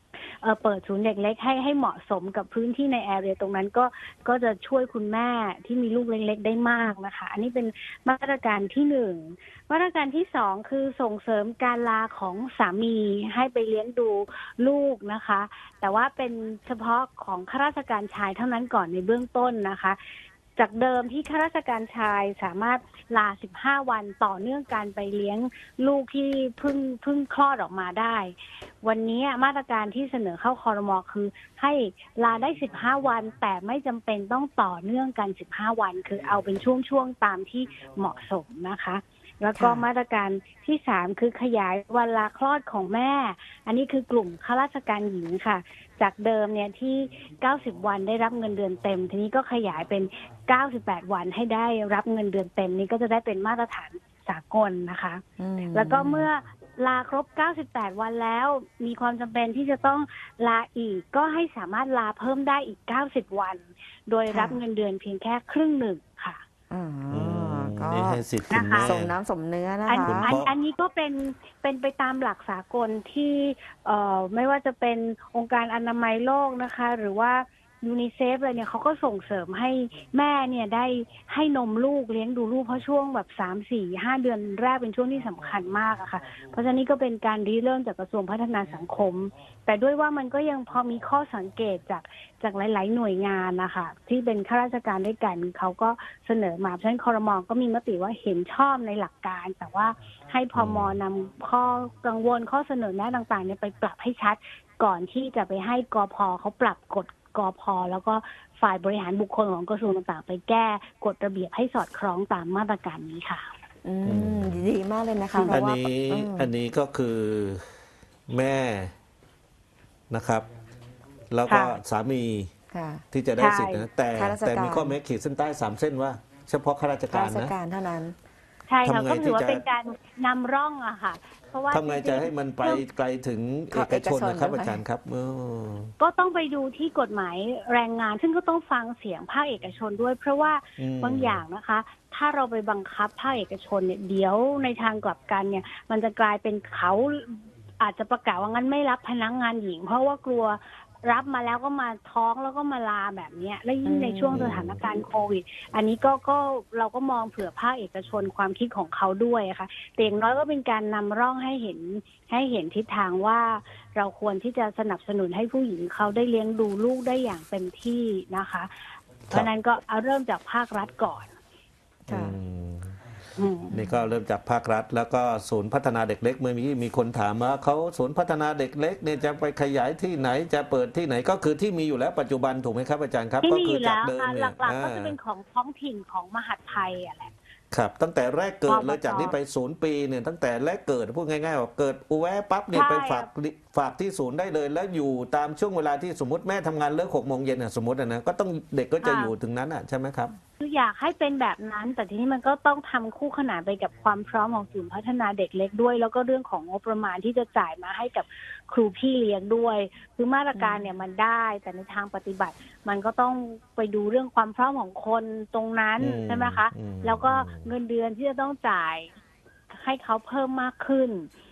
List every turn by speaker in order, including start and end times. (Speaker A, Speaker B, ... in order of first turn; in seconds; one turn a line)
Speaker A: 0.4-20.0
Speaker A: 20.6-66.4
Speaker B: 39.5-39.8
Speaker B: 55.4-56.3
Speaker B: 64.3-64.6
Speaker B: 66.7-70.3
Speaker C: 67.1-69.2
Speaker A: 68.5-69.0
Speaker A: 69.9-113.5
Speaker C: 70.0-70.5
Speaker C: 100.5-100.9
Speaker B: 113.8-116.5
Speaker C: 114.1-114.7
Speaker C: 115.5-117.7
Speaker C: 118.3-118.9
Speaker C: 120.1-120.5
Speaker C: 121.3-122.5
Speaker A: 121.5-121.8
Speaker B: 122.7-123.0
Speaker C: 123.1-127.5
Speaker A: 123.4-123.9
Speaker B: 124.1-125.0
Speaker B: 127.1-128.2
Speaker A: 128.7-132.8
Speaker C: 128.8-129.6
Speaker C: 131.7-135.9
Speaker B: 133.7-134.8
Speaker A: 136.0-168.7
Speaker C: 140.8-141.4
Speaker B: 153.8-154.4
Speaker C: 154.3-154.8
Speaker A: 169.3-171.3
Speaker C: 172.1-172.9
Speaker B: 172.1-172.3
Speaker A: 173.4-173.8
Speaker C: 173.7-185.2
Speaker A: 183.4-187.3
Speaker C: 187.7-200.3
Speaker A: 188.7-189.3
Speaker A: 192.7-193.3
Speaker A: 199.0-199.3
Speaker A: 200.6-219.2
Speaker B: 210.5-210.9
Speaker C: 216.0-217.7
Speaker A: 219.7-221.3